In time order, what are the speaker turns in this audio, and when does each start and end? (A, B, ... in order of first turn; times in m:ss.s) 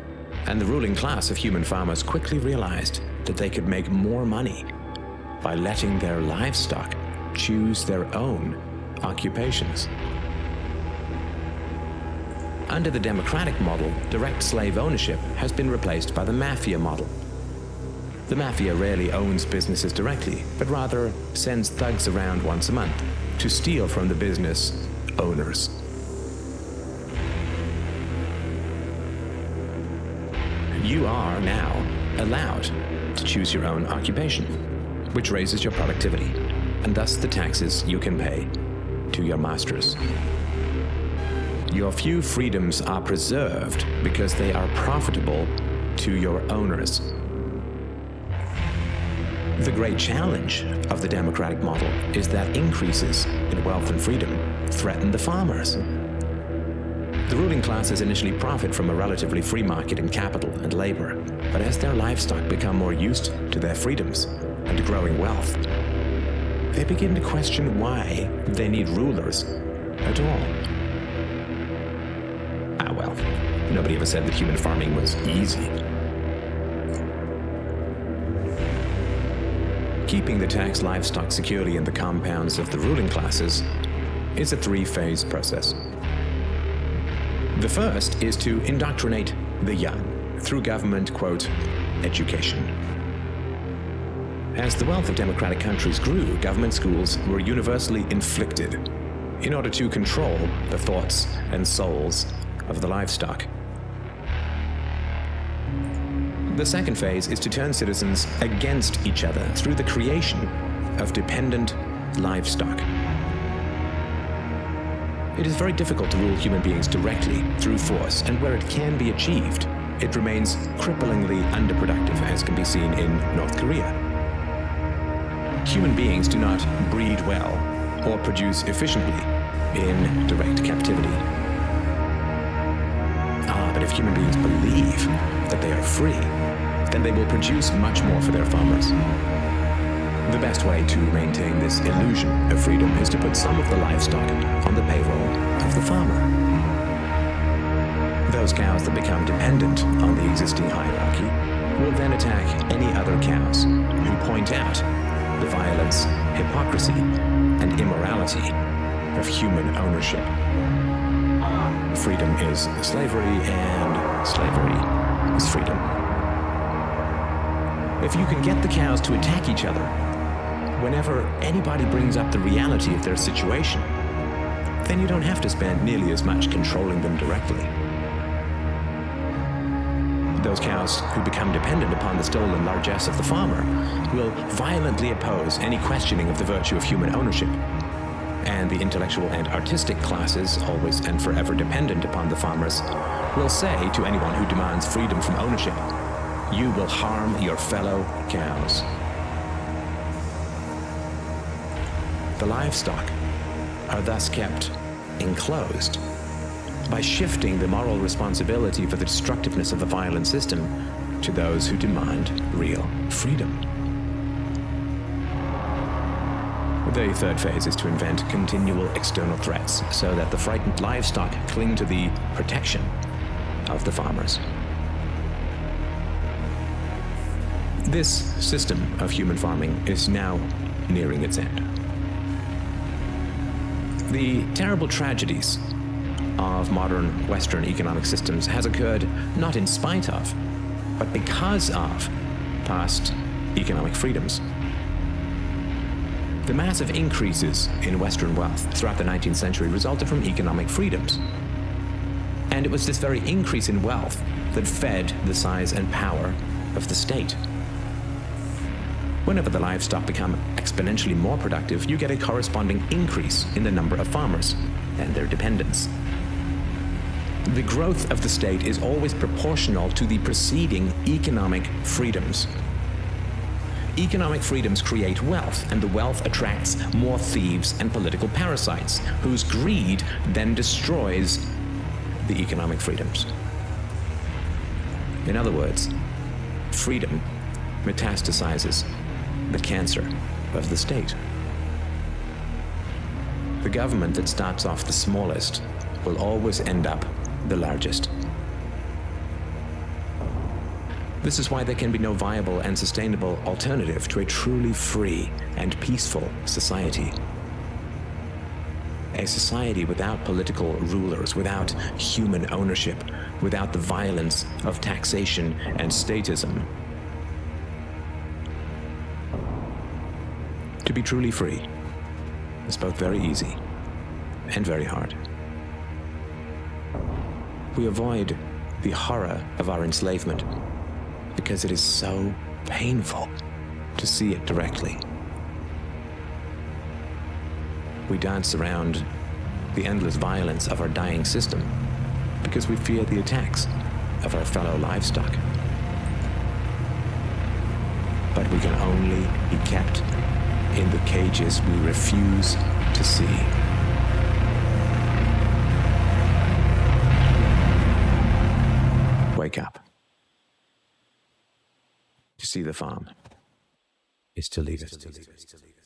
0:00.4-0:04.7 A
0:05.4-0:09.9 A
0:12.7-0:17.1 A
0:18.3-0:25.8 A
0:30.8-0:34.6 A
0:35.1-0:38.5 A
0:39.1-0:40.0 A
0:41.7-0:47.1 A
0:49.6-0:55.8 A
0:57.3-1:05.6 A
1:06.7-1:10.6 A
1:12.8-1:15.7 A
1:20.0-1:23.7 A
1:24.3-1:25.8 A
1:27.5-1:32.7 A
1:34.5-1:38.8 A
1:39.4-1:43.5 A
1:46.5-1:52.9 A
1:55.3-2:03.9 A
2:05.6-2:11.2 A
2:13.5-2:16.3 A
2:16.9-2:19.0 A
2:20.2-2:26.3 A
2:28.3-2:34.8 A
2:35.4-2:38.6 A
2:39.1-2:40.3 A
2:41.9-2:45.9 A
2:48.0-2:49.9 A
2:50.8-2:53.9 A
2:54.8-2:57.7 A
3:00.4-3:07.6 A
3:08.4-3:15.8 A
3:16.5-3:19.0 A
3:22.4-3:23.1 A
3:23.9-3:26.0 A
3:26.9-3:33.6 A
3:36.8-3:42.9 A
3:43.6-3:44.4 A
3:47.8-3:51.6 A
3:54.1-3:55.7 A
3:56.4-4:00.4 A
4:01.0-4:02.1 A
4:02.6-4:04.4 A
4:06.4-4:11.2 A
4:12.5-4:17.4 A
4:19.2-4:25.9 A
4:27.4-4:32.6 A
4:34.0-4:41.5 A
4:42.2-4:43.3 A
4:45.2-4:45.9 A
4:46.7-4:47.2 A
4:47.8-4:48.9 A
4:49.5-4:51.2 A
4:53.6-4:58.1 A
5:01.2-5:07.2 A
5:09.1-5:16.7 A
5:20.8-5:21.6 A
5:22.6-5:23.6 A
5:24.5-5:25.2 A
5:27.7-5:30.5 A
5:31.3-5:33.3 A
5:34.0-5:35.0 A
5:38.1-5:39.1 A
5:39.7-5:41.7 A
5:42.4-5:43.7 A
5:44.2-5:45.4 A
5:48.3-5:50.0 A
5:50.7-5:53.5 A
5:59.3-5:59.8 A
6:02.4-6:03.1 A
6:04.4-6:05.5 A